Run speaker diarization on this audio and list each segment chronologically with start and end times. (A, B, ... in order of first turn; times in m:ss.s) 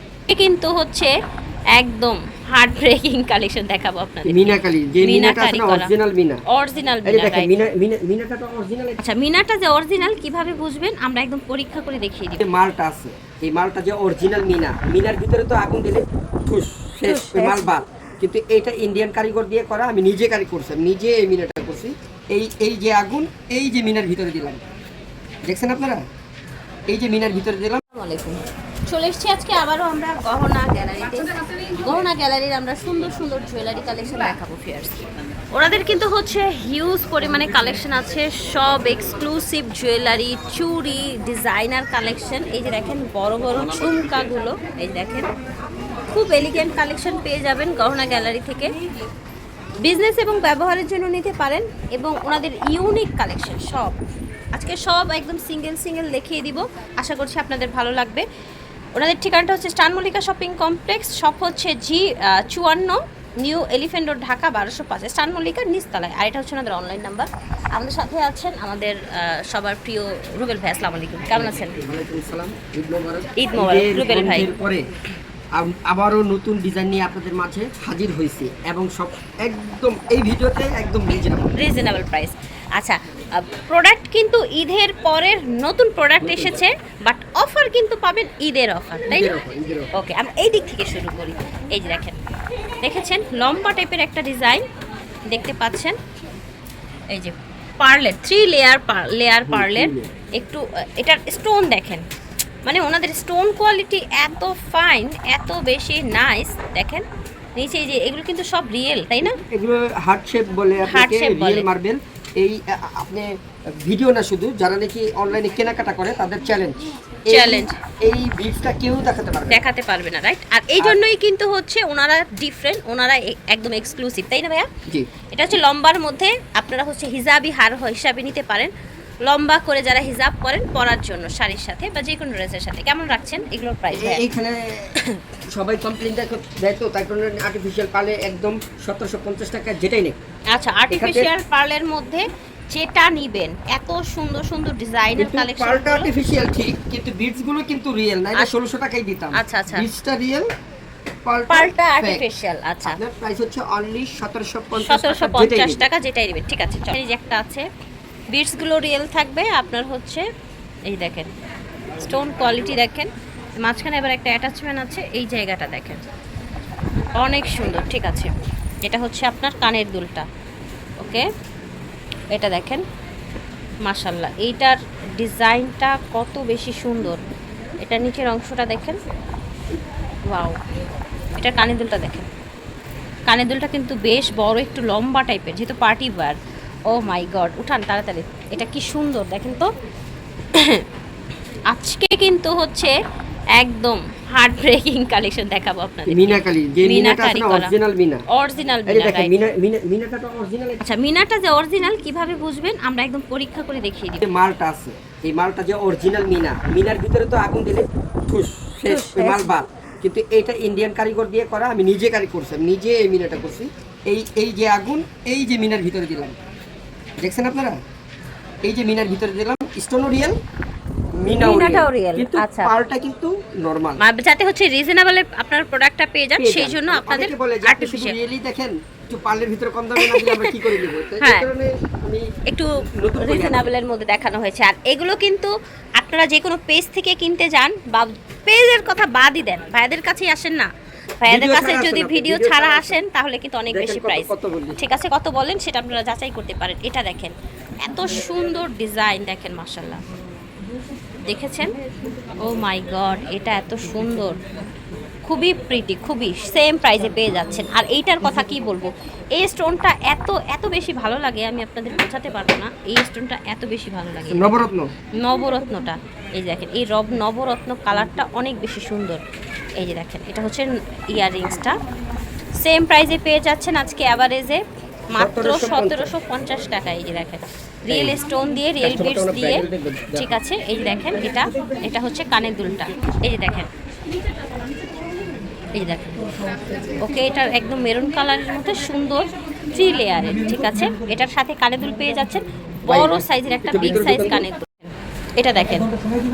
0:00.3-0:01.1 A
0:01.8-0:05.9 A
0:04.2-0:06.4 B
0:06.5-0:07.5 A
0:07.0-0:09.0 B
0:09.0-0:12.5 A
0:12.4-0:24.6 B
0:17.0-0:17.7 A
0:25.5-0:26.0 B
0:26.9-0:27.8 B
0:27.9-0:45.3 A
0:46.1-0:48.7 A
0:49.8-0:54.0 A
0:54.5-0:58.2 A
0:58.9-1:11.8 A
1:11.4-1:14.8 B
1:13.4-1:14.5 A
1:15.6-1:21.5 B
1:21.6-1:29.3 A
1:26.2-1:26.6 B
1:29.1-1:29.9 B
1:29.9-1:32.2 A
1:32.8-1:34.6 A
1:35.3-1:36.0 A
1:37.1-1:42.0 A
1:39.5-1:40.1 B
1:42.6-1:47.0 A
1:47.6-1:49.4 A
1:49.2-1:53.2 B
1:50.9-1:51.7 A
1:53.8-1:59.6 B
1:57.3-1:57.8 A
1:59.5-2:04.7 A
2:05.3-2:08.7 A
2:09.2-2:14.2 A
2:13.9-2:14.9 B
2:15.0-2:15.2 A
2:15.5-2:20.2 B
2:20.5-2:26.1 A
2:20.9-2:21.3 B
2:25.2-2:30.4 B
2:29.3-2:29.9 A
2:31.3-2:32.2 B
2:31.5-2:33.0 A
2:32.8-2:35.8 B
2:34.7-2:37.6 A
2:38.3-2:40.2 A
2:40.8-2:41.3 A
2:42.0-2:43.1 A
2:43.6-2:46.0 A
2:47.2-2:48.3 A
2:48.8-2:50.2 A
2:51.0-2:51.2 A
2:52.3-2:52.8 A
2:53.8-2:57.2 A
2:57.8-2:59.0 A
3:00.3-3:00.6 A
3:01.4-3:02.3 A
3:03.3-3:06.4 A
3:06.9-3:09.7 A
3:10.5-3:10.8 A
3:11.7-3:12.9 A
3:13.6-3:17.7 A
3:16.1-3:18.2 B
3:18.3-3:19.3 A
3:18.9-3:20.8 B
3:20.8-3:24.3 A
3:24.2-3:36.4 B
3:28.9-3:29.5 A
3:37.2-3:37.8 B
3:38.6-3:40.4 B
3:41.2-3:44.0 B
3:41.3-3:42.7 A
3:44.0-3:48.2 A
3:46.4-3:52.2 B
3:50.0-3:51.5 A
3:52.5-4:00.7 A
3:52.8-3:53.7 B
4:01.2-4:10.0 A
4:01.3-4:03.0 B
4:03.7-4:04.8 B
4:11.3-4:11.8 A
4:12.4-4:14.4 A
4:15.3-4:24.7 A
4:24.3-4:24.9 B
4:25.2-4:29.2 A
4:29.8-4:31.8 A
4:32.6-4:43.7 A
4:35.2-4:36.1 B
4:37.9-4:38.2 B
4:38.8-4:40.3 B
4:45.7-4:46.3 A
4:46.9-4:55.9 A
4:52.9-4:54.4 B